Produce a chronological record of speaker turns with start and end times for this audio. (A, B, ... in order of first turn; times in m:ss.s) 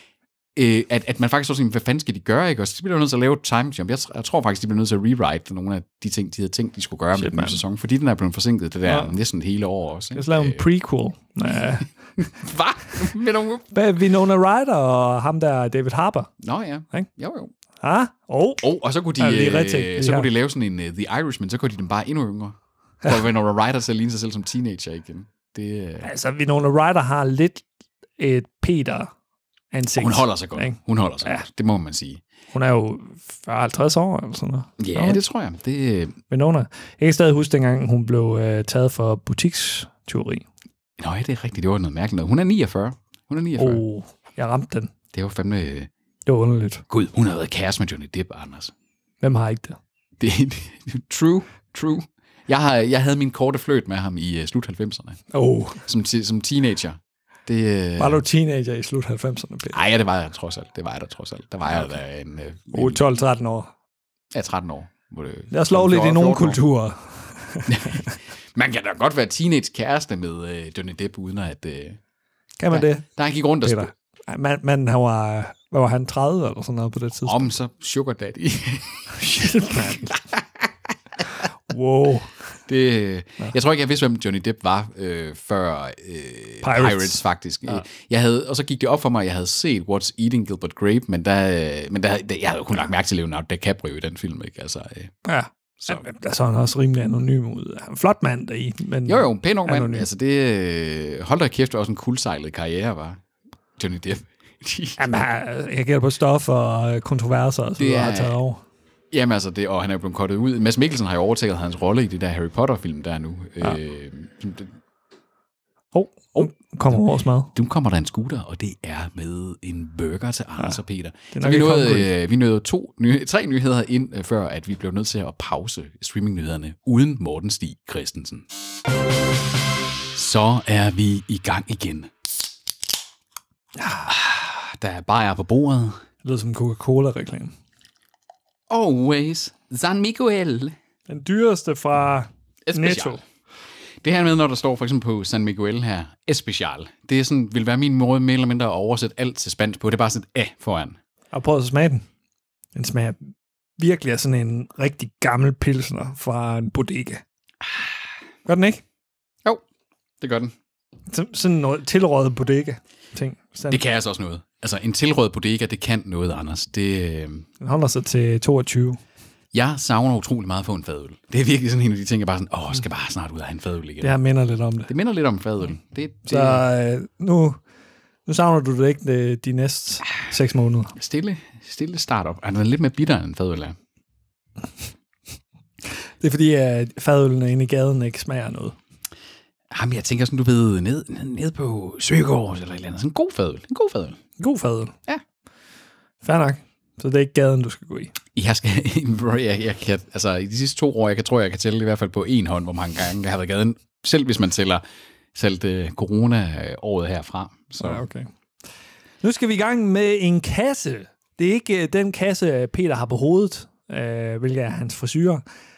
0:00.6-0:10.6 A
0:07.2-0:07.6 B
0:08.8-0:09.2 B
0:10.1-0:11.9 B
0:11.4-0:13.7 A
0:13.7-0:16.3 B
0:16.4-0:17.5 A
0:17.8-0:18.6 B
0:18.6-0:26.1 A
0:19.2-0:20.3 B
0:26.0-0:27.6 B
0:28.2-0:29.1 B
0:29.7-0:31.5 B
0:29.9-0:32.2 A
0:32.5-0:35.2 B
0:34.8-0:36.2 A
0:36.3-0:40.5 B
0:41.0-0:43.8 A
0:43.6-0:44.9 B
0:45.1-0:45.9 A
0:46.3-0:46.8 B
0:46.9-0:48.7 A
0:49.2-0:49.8 B
0:50.2-0:55.2 A
0:55.3-0:55.8 B
0:55.8-0:58.2 A
0:58.0-0:59.8 B
0:59.7-1:03.0 A
1:02.7-1:03.7 B
1:04.3-1:06.6 A
1:05.5-1:08.1 B
1:07.7-1:12.0 A
1:12.6-1:13.0 B
1:12.7-1:13.9 A
1:13.6-1:17.5 B
1:17.2-1:19.2 A
1:19.1-1:20.2 B
1:19.9-1:20.7 A
1:21.7-1:22.5 B
1:22.7-1:35.1 A
1:26.6-1:27.8 B
1:35.2-1:40.1 B
1:39.0-1:43.2 A
1:43.8-1:45.0 A
1:45.0-1:48.6 B
1:47.8-1:48.4 A
1:49.1-1:54.8 A
1:55.9-1:57.5 B
1:57.5-2:08.5 A
2:01.3-2:02.1 B
2:10.1-2:12.1 A
2:13.8-2:14.1 B
2:14.1-2:16.0 A
2:16.2-2:17.5 B
2:18.7-2:20.8 A
2:21.1-2:23.2 B
2:22.6-2:23.2 A
2:24.0-2:31.0 A
2:31.3-2:32.0 B
2:32.8-2:37.2 B
2:38.5-2:38.8 B
2:40.2-2:40.5 A
2:41.1-2:43.8 B
2:43.7-2:47.5 A
2:47.6-2:49.0 B
2:49.5-2:54.2 A
2:54.0-2:54.9 B
2:54.9-2:56.6 A
2:56.3-2:57.6 B
2:58.3-3:00.9 B
3:01.0-3:03.8 A
3:06.2-3:08.8 B
3:09.7-3:14.2 A
3:14.4-3:14.9 B
3:16.2-3:18.1 B
3:18.4-3:24.8 A
3:25.4-3:28.0 A
3:27.8-3:28.3 B
3:29.2-3:35.4 B